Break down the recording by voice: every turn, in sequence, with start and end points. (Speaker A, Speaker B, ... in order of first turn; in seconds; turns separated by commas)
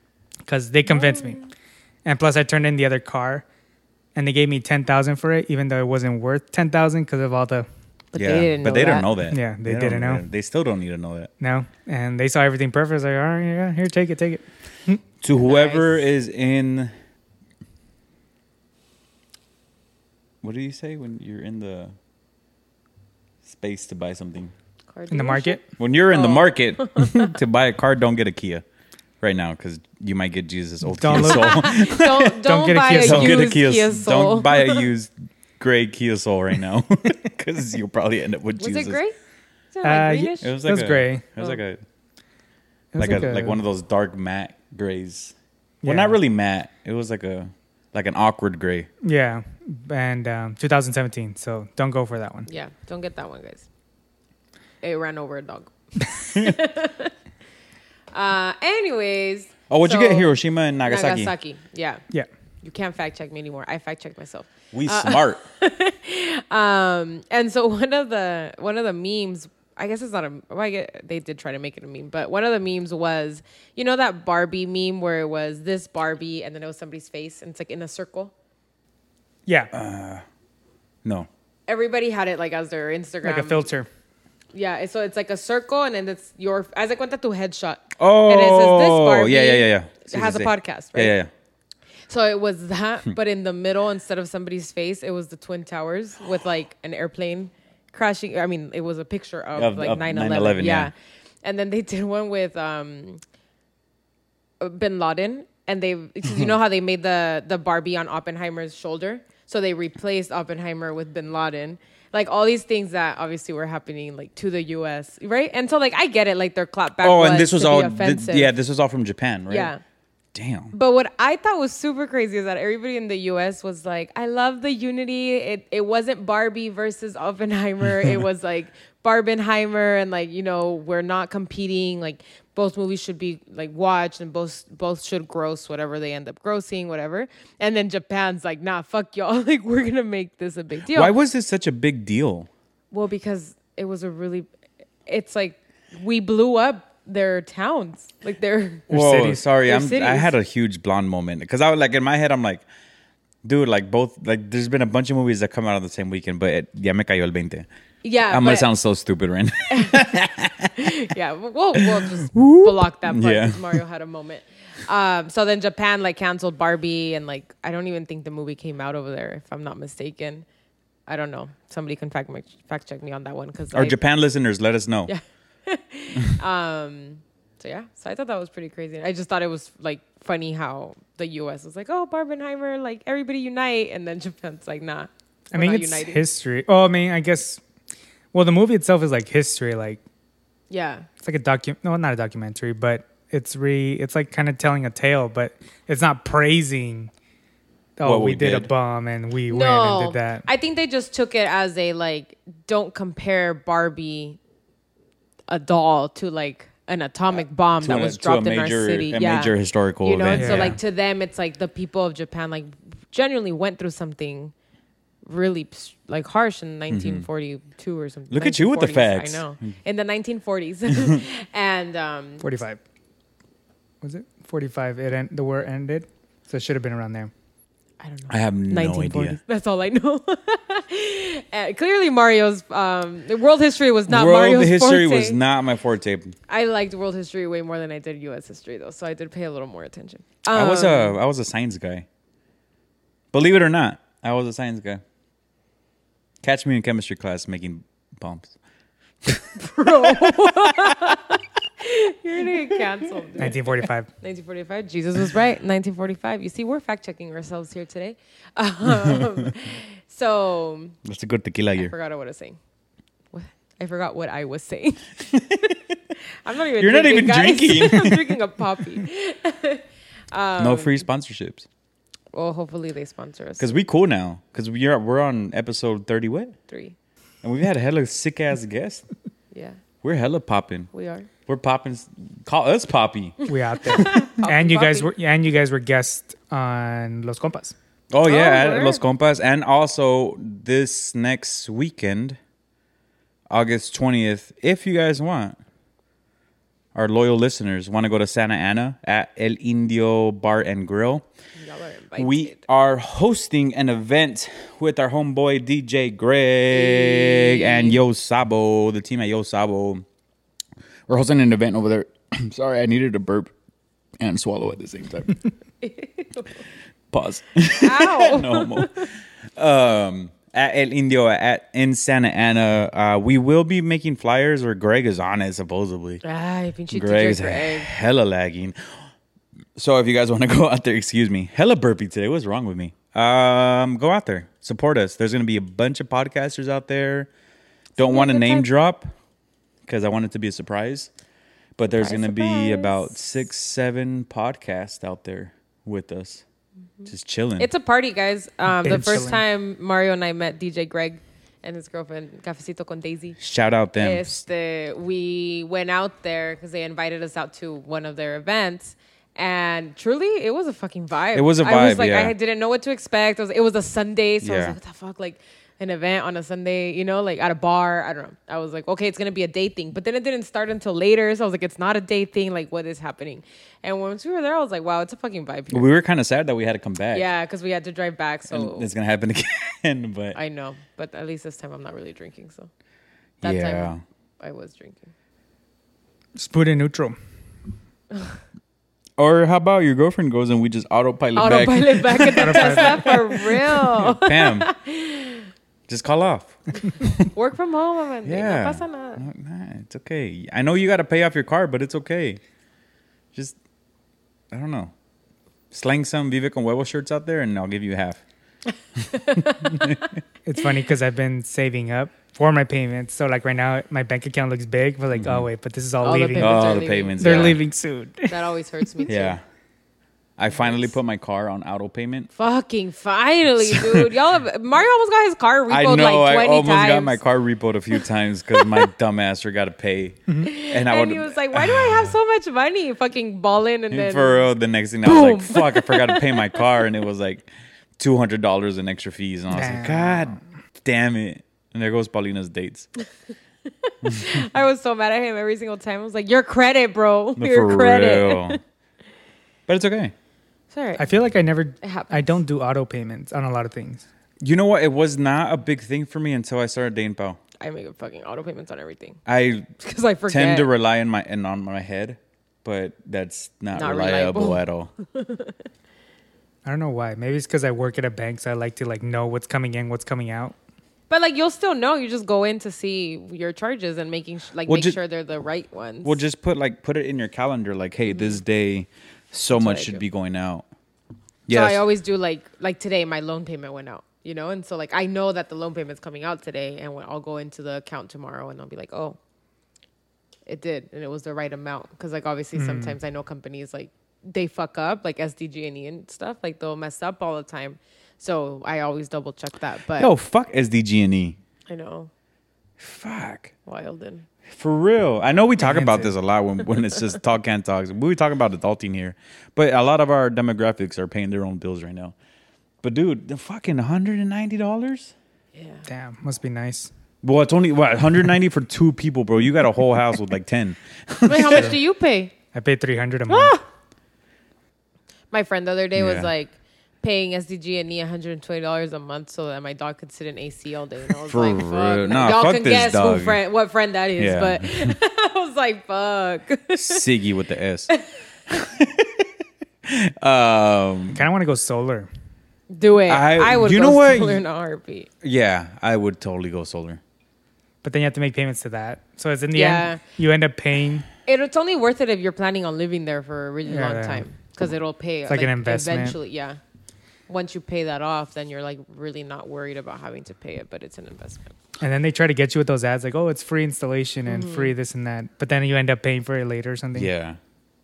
Speaker A: 0.5-1.4, Speaker B: 0.9-1.5, Speaker A: 2.0-3.4, Speaker A: 4.1-7.7, Speaker B: 8.1-9.1, Speaker C: 8.2-11.3, Speaker A: 9.3-10.2, Speaker A: 11.4-15.0, Speaker C: 15.2-16.9, Speaker B: 15.4-16.1, Speaker C: 20.4-21.9, Speaker C: 23.4-24.5, Speaker B: 24.9-27.2, Speaker A: 25.1-25.6, Speaker C: 25.8-28.6, Speaker C: 29.2-32.4, Speaker A: 30.8-31.8, Speaker B: 31.1-34.9, Speaker A: 32.4-33.5, Speaker C: 32.9-39.0, Speaker B: 38.6-39.1, Speaker B: 39.7-40.5, Speaker A: 39.8-41.2, Speaker C: 40.4-41.8, Speaker A: 42.9-43.6, Speaker C: 43.0-48.9, Speaker A: 45.8-46.2, Speaker A: 49.0-52.5, Speaker B: 52.5-53.6, Speaker B: 54.8-57.1, Speaker B: 58.1-62.0, Speaker C: 59.7-61.3, Speaker B: 62.6-78.3, Speaker C: 64.7-65.4, Speaker A: 79.5-79.7, Speaker C: 79.7-80.2, Speaker C: 81.0-81.3, Speaker B: 81.7-83.7, Speaker A: 83.2-83.9, Speaker B: 84.5-91.2, Speaker C: 88.0-91.3, Speaker B: 92.1-103.2, Speaker C: 99.5-100.9, Speaker B: 104.6-118.5, Speaker C: 117.0-119.7, Speaker B: 119.5-119.8, Speaker C: 120.3-120.7, Speaker B: 120.7-141.1, Speaker C: 140.9-142.5, Speaker B: 142.9-144.4, Speaker B: 145.1-148.9, Speaker C: 148.9-152.6, Speaker A: 148.9-149.4, Speaker B: 149.6-150.3, Speaker C: 153.4-157.7, Speaker B: 158.0-158.7, Speaker C: 158.3-161.0, Speaker B: 159.7-160.1, Speaker B: 160.8-170.4, Speaker C: 161.7-163.8, Speaker B: 171.1-174.0, Speaker C: 173.7-175.1, Speaker B: 175.1-186.2, Speaker A: 185.5-187.6, Speaker A: 188.3-190.0, Speaker B: 190.7-191.1, Speaker A: 191.2-197.1, Speaker A: 198.0-200.4, Speaker C: 198.0-198.7, Speaker B: 199.5-204.4, Speaker B: 205.5-214.5, Speaker C: 207.4-210.8, Speaker A: 210.3-210.7, Speaker B: 215.2-222.4, Speaker C: 216.9-217.2, Speaker C: 218.3-219.7, Speaker C: 220.9-221.2, Speaker A: 222.4-222.8, Speaker A: 224.0-227.3, Speaker B: 228.0-235.4, Speaker C: 228.3-229.4, Speaker C: 234.1-236.3, Speaker B: 236.5-241.2, Speaker C: 240.5-242.1, Speaker C: 243.3-245.0, Speaker C: 246.4-248.5, Speaker C: 249.2-250.9, Speaker B: 249.6-261.0, Speaker A: 253.4-254.1, Speaker C: 258.9-259.5, Speaker C: 261.0-261.9, Speaker B: 261.8-262.6, Speaker B: 263.3-265.8, Speaker C: 265.3-265.7, Speaker B: 266.4-271.0, Speaker C: 266.8-268.4, Speaker C: 270.6-271.6, Speaker B: 272.3-273.8, Speaker C: 273.6-276.6, Speaker B: 276.7-276.9, Speaker C: 277.4-279.0, Speaker B: 279.5-279.8, Speaker C: 280.0-280.9, Speaker B: 280.9-281.3, Speaker C: 281.5-283.4, Speaker B: 283.5-285.1, Speaker A: 283.5-287.7, Speaker C: 288.1-292.4, Speaker B: 288.2-289.0, Speaker C: 293.5-295.6, Speaker C: 296.9-301.2, Speaker B: 301.6-302.6, Speaker C: 302.2-310.0, Speaker B: 306.7-308.0, Speaker C: 311.1-313.5, Speaker C: 314.2-315.4, Speaker B: 315.8-316.6, Speaker C: 317.1-326.2, Speaker B: 317.8-319.1, Speaker B: 326.2-327.9, Speaker C: 326.9-328.9, Speaker C: 329.8-337.3, Speaker B: 338.0-338.7, Speaker C: 338.0-339.1, Speaker C: 339.9-341.1, Speaker C: 341.8-346.4, Speaker B: 342.0-343.1, Speaker C: 347.1-347.7, Speaker B: 347.6-353.4, Speaker A: 348.7-349.4, Speaker C: 353.4-354.4, Speaker B: 353.9-375.9, Speaker C: 361.3-362.3, Speaker C: 364.4-364.8, Speaker C: 375.7-377.3, Speaker B: 377.1-378.9, Speaker C: 378.5-380.4, Speaker B: 380.3-382.7, Speaker C: 383.4-384.0, Speaker B: 383.4-385.1, Speaker A: 386.4-387.2, Speaker B: 388.1-388.4, Speaker C: 389.2-394.7, Speaker B: 391.3-395.5, Speaker A: 392.4-393.0, Speaker C: 395.9-397.3, Speaker B: 397.3-399.2, Speaker C: 398.2-402.4, Speaker C: 404.5-404.9, Speaker C: 405.7-408.2, Speaker B: 409.2-409.6, Speaker C: 409.4-410.1, Speaker A: 410.4-418.4, Speaker C: 415.1-415.5, Speaker B: 416.0-417.6, Speaker C: 416.4-417.6, Speaker B: 418.3-419.4, Speaker C: 419.1-419.4, Speaker C: 420.4-422.3, Speaker B: 420.6-420.9, Speaker B: 422.3-427.2, Speaker C: 423.6-424.1, Speaker C: 425.7-432.1, Speaker B: 428.5-428.9, Speaker B: 430.4-434.5, Speaker C: 433.9-442.9, Speaker B: 435.0-436.8, Speaker A: 439.5-440.4, Speaker B: 443.8-448.6, Speaker C: 444.0-444.4, Speaker C: 447.4-448.6, Speaker C: 449.7-450.1, Speaker B: 450.7-451.1, Speaker A: 451.0-454.1, Speaker B: 451.8-452.4, Speaker C: 454.4-457.4, Speaker B: 457.6-459.2, Speaker C: 459.2-459.7, Speaker B: 459.8-460.7, Speaker C: 460.3-464.9, Speaker B: 463.7-465.5, Speaker A: 466.6-470.5, Speaker B: 471.1-476.2, Speaker C: 474.7-475.0, Speaker C: 476.0-480.6, Speaker B: 478.1-478.4, Speaker B: 479.5-480.0, Speaker C: 481.5-481.8, Speaker B: 481.5-489.2, Speaker B: 490.5-500.1, Speaker A: 492.5-493.0, Speaker C: 500.0-501.4, Speaker B: 501.7-502.1, Speaker C: 502.8-503.5, Speaker B: 503.6-504.3, Speaker C: 504.4-512.1, Speaker A: 505.6-506.1, Speaker C: 512.8-515.1, Speaker B: 515.5-515.8, Speaker A: 515.9-516.9, Speaker C: 517.2-521.8, Speaker B: 521.2-522.3, Speaker A: 522.5-523.6, Speaker B: 523.3-523.6, Speaker B: 525.3-537.0, Speaker C: 525.9-526.3, Speaker C: 531.2-533.4, Speaker C: 534.2-535.0, Speaker C: 536.7-537.9, Speaker C: 538.5-539.3, Speaker C: 539.8-541.2, Speaker A: 541.1-542.1, Speaker B: 542.7-545.1, Speaker C: 543.1-544.4, Speaker C: 545.2-547.0, Speaker A: 547.8-551.0, Speaker B: 549.5-550.0, Speaker B: 551.3-556.6, Speaker A: 553.7-554.2, Speaker A: 555.3-556.1, Speaker B: 557.3-561.5, Speaker A: 561.8-567.1, Speaker B: 564.3-564.7, Speaker C: 566.9-567.4